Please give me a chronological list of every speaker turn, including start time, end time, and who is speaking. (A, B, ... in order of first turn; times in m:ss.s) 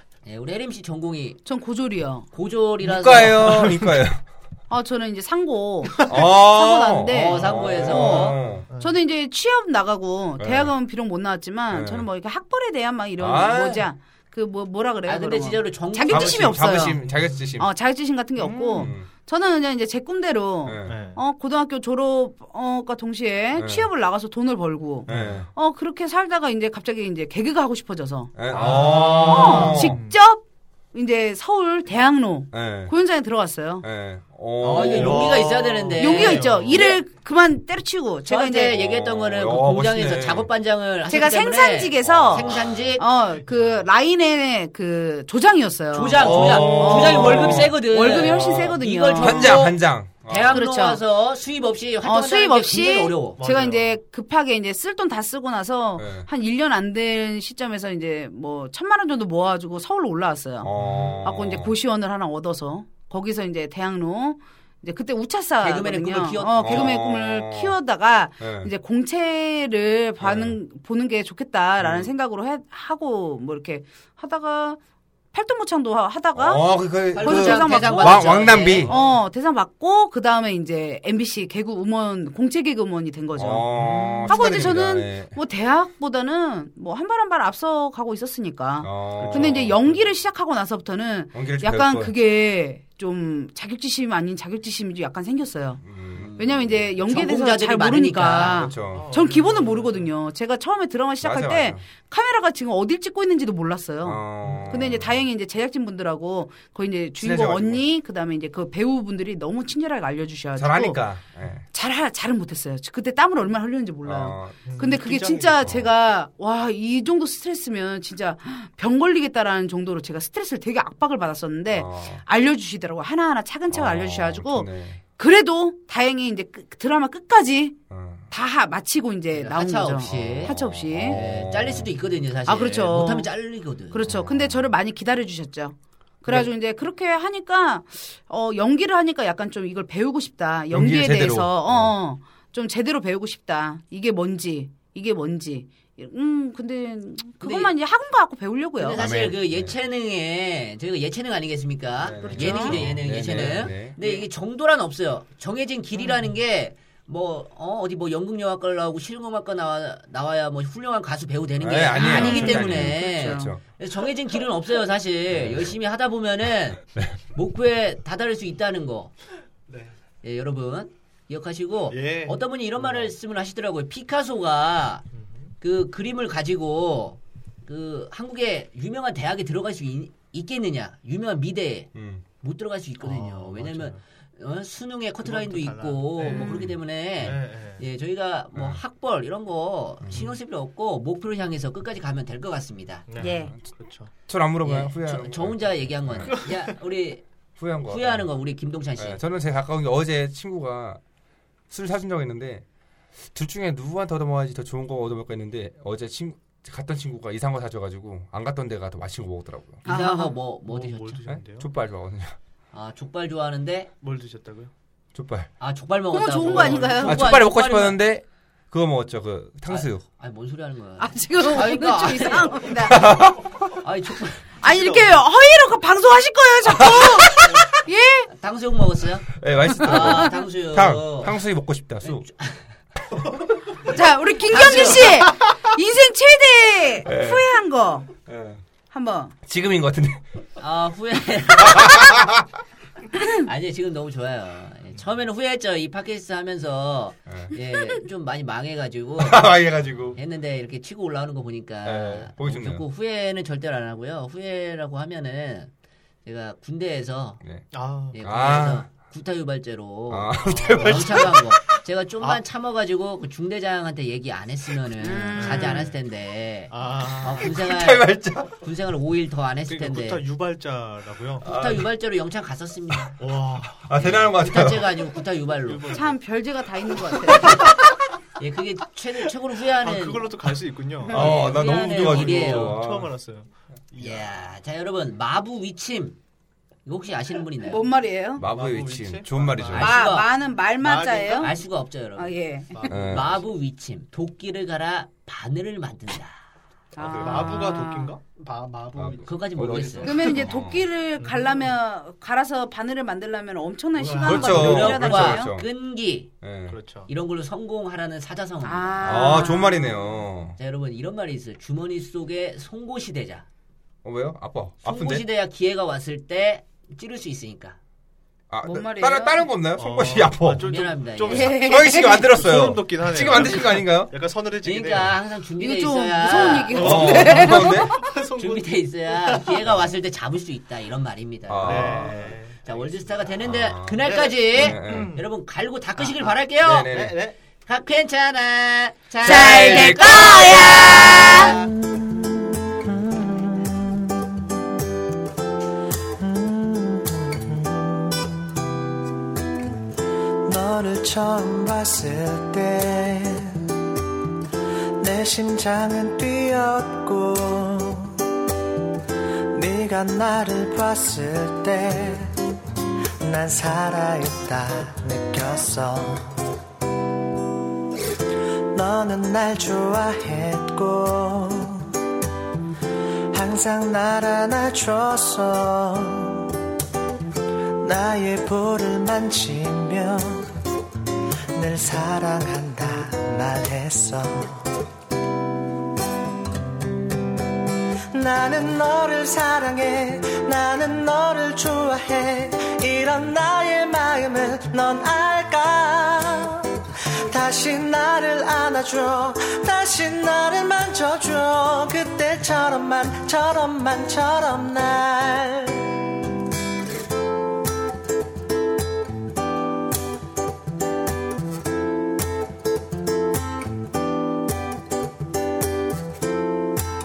0:00.2-0:01.4 A
0:01.5-0:02.3 B
0:02.3-0:03.7 A
0:02.8-0:04.2 C
0:03.4-0:03.8 D
0:04.7-0:17.0 B
0:06.1-0:08.7 C
0:07.1-0:08.4 A
0:07.5-0:09.0 D
0:10.4-0:10.7 C
0:11.7-0:12.1 C
0:13.2-0:13.9 C
0:15.1-0:16.7 A
0:16.1-0:17.7 C
0:17.1-0:17.5 D
0:17.6-0:33.8 B
0:18.4-0:19.1 C
0:18.5-0:18.9 D
0:20.6-0:21.0 C
0:20.8-0:21.2 D
0:23.6-0:23.9 C
0:25.1-0:25.5 C
0:25.1-0:25.5 D
0:28.4-0:30.0 C
0:28.5-0:30.2 D
0:32.5-0:32.9 C
0:33.8-0:35.5 C
0:34.6-0:37.0 A
0:34.7-0:37.0 D
0:36.0-0:38.8 B
0:38.3-0:43.0 A
0:38.8-0:40.5 C
0:41.1-0:49.7 B
0:42.1-0:42.9 C
0:45.9-0:53.4 A
0:46.2-0:47.8 C
0:46.3-0:46.6 D
0:48.4-0:50.6 C
0:50.5-0:51.0 B
0:52.0-1:14.8 B
0:53.4-0:53.9 D
0:56.0-0:56.3 C
1:00.6-1:01.7 C
1:00.8-1:01.3 D
1:05.6-1:07.0 A
1:06.6-1:07.8 C
1:08.4-1:08.7 C
1:10.2-1:10.6 C
1:11.8-1:12.1 C
1:15.3-1:23.7 B
1:16.4-1:18.9 C
1:17.1-1:18.9 A
1:18.8-1:19.2 D
1:23.4-1:25.4 C
1:23.7-1:24.7 D
1:24.3-1:35.8 B
1:28.8-1:29.8 C
1:29.2-1:30.0 D
1:31.3-1:32.1 C
1:35.8-1:36.7 C
1:36.2-1:38.7 A
1:36.4-1:51.0 B
1:38.4-1:39.1 C
1:38.9-1:40.1 D
1:41.2-1:41.8 C
1:44.0-1:45.2 C
1:44.4-1:45.0 D
1:47.2-1:47.8 C
1:50.6-1:51.6 C
1:51.7-2:07.8 B
1:54.0-1:54.6 C
1:54.6-1:55.9 D
2:01.7-2:02.2 C
2:03.7-2:05.0 C
2:07.9-2:08.3 C
2:08.3-2:11.2 B
2:09.3-2:14.1 A
2:10.1-2:11.9 C
2:12.5-2:13.3 B
2:13.9-2:29.0 B
2:14.1-2:14.7 C
2:20.7-2:21.9 C
2:27.4-2:27.7 A
2:28.8-2:46.8 A
2:29.0-2:29.7 C
2:32.0-2:34.0 C
2:32.2-2:32.8 B
2:41.6-2:43.6 C
2:41.9-2:43.5 B
2:45.4-2:45.7 C
2:47.3-2:49.1 A
2:49.7-2:49.9 D
2:50.2-2:55.1 A
2:51.9-2:53.1 D
2:55.1-2:55.5 D
2:55.6-3:01.9 A
3:02.0-3:02.2 C
3:02.4-3:13.1 A
3:03.0-3:04.0 D
3:05.2-3:07.8 D
3:06.2-3:06.6 B
3:08.6-3:08.8 C
3:10.0-3:10.3 C
3:13.1-3:14.1 D
3:13.2-3:13.6 B
3:14.3-3:16.4 C
3:14.6-3:17.2 A
3:16.3-3:16.7 D
3:17.6-3:18.3 C
3:17.9-3:19.2 A
3:19.0-3:21.0 C
3:21.7-3:22.6 C
3:23.3-3:29.8 C
3:29.8-3:30.3 B
3:29.9-3:31.2 A
3:30.7-3:31.7 D
3:31.3-3:32.4 C
3:32.7-3:33.9 A
3:34.0-3:34.7 D
3:35.1-3:35.5 C
3:35.6-3:38.0 A
3:36.1-3:37.3 B
3:36.4-3:37.2 D
3:37.0-3:40.0 C
3:39.7-3:43.1 A
3:41.0-3:43.3 B
3:42.8-3:43.7 C
3:43.8-3:44.5 A
3:44.6-3:48.3 B
3:44.7-3:45.1 D
3:46.7-3:47.6 C
3:48.3-3:51.4 A
3:49.4-3:52.2 C
3:52.0-3:52.6 A
3:53.9-3:58.1 B
3:54.5-3:55.2 A
3:57.0-3:57.4 C
3:58.3-3:58.6 C
3:58.9-3:59.3 B
3:59.5-4:00.2 C
4:00.6-4:02.3 A
4:01.6-4:02.4 C
4:03.2-4:09.5 A
4:07.3-4:07.5 C
4:09.2-4:10.2 C
4:10.2-4:15.7 A
4:11.8-4:12.8 C
4:16.2-4:17.4 A
4:17.7-4:18.2 D
4:18.1-4:30.2 A
4:18.2-4:18.9 C
4:20.1-4:21.6 C
4:20.4-4:21.4 D
4:25.0-4:25.9 B
4:25.4-4:26.0 D
4:26.7-4:27.6 D
4:27.5-4:28.6 C
4:29.7-4:31.6 D
4:31.4-4:31.9 C
4:31.4-4:33.2 A
4:33.2-4:34.2 D
4:33.8-4:34.9 C
4:34.0-4:36.0 A
4:35.6-4:36.2 D
4:35.9-4:37.7 B
4:37.2-4:37.7 D
4:38.4-4:40.3 A
4:39.8-4:44.3 D
4:41.1-4:42.8 A
4:41.1-4:43.1 C
4:41.2-4:41.6 B
4:44.0-4:46.2 A
4:46.9-4:47.8 A
4:47.6-4:48.4 B
4:48.4-4:50.0 C
4:48.4-4:50.0 D
4:49.7-4:50.3 A
4:49.8-4:51.5 B
4:50.8-4:51.5 D
4:51.3-4:56.4 A
4:52.2-4:52.9 B
4:52.7-4:53.5 D
4:52.9-4:53.3 C
4:57.0-4:58.1 B
4:57.0-5:01.7 D
4:57.0-4:57.6 C
4:59.0-5:00.9 C
4:59.1-5:00.2 A
5:00.0-5:05.6 B
5:04.0-5:04.9 D
5:04.2-5:05.6 C
5:04.4-5:06.3 A
5:06.4-5:06.8 C
5:06.7-5:07.1 D
5:07.1-5:09.4 A
5:08.6-5:10.1 B
5:09.0-5:10.6 C
5:10.6-5:13.4 A
5:14.0-5:15.2 C
5:14.8-5:17.8 A
5:18.5-5:20.7 C
5:18.6-5:19.4 B
5:19.8-5:25.2 D
5:20.6-5:21.6 A
5:21.3-5:24.1 C
5:21.3-5:22.3 B
5:23.3-5:23.7 A
5:24.6-5:27.4 A
5:25.6-5:28.0 B
5:26.7-5:29.8 D
5:26.8-5:27.9 C
5:28.0-5:36.9 A
5:31.5-5:32.3 C
5:31.6-5:33.3 D
5:33.4-5:34.0 C
5:34.0-5:35.3 D
5:34.5-5:35.2 C
5:36.0-5:37.4 D
5:36.6-5:37.2 C
5:37.7-5:41.7 A
5:39.2-5:40.8 C
5:39.2-5:41.6 B
5:42.7-5:44.3 E
5:46.2-5:48.3 E
5:50.4-5:53.7 E
5:55.0-5:58.2 E
5:59.5-6:02.4 E
6:03.2-6:06.4 E
6:08.7-6:12.0 E
6:13.3-6:16.6 E
6:17.8-6:20.5 E
6:21.5-6:24.8 E
6:28.1-6:46.0 E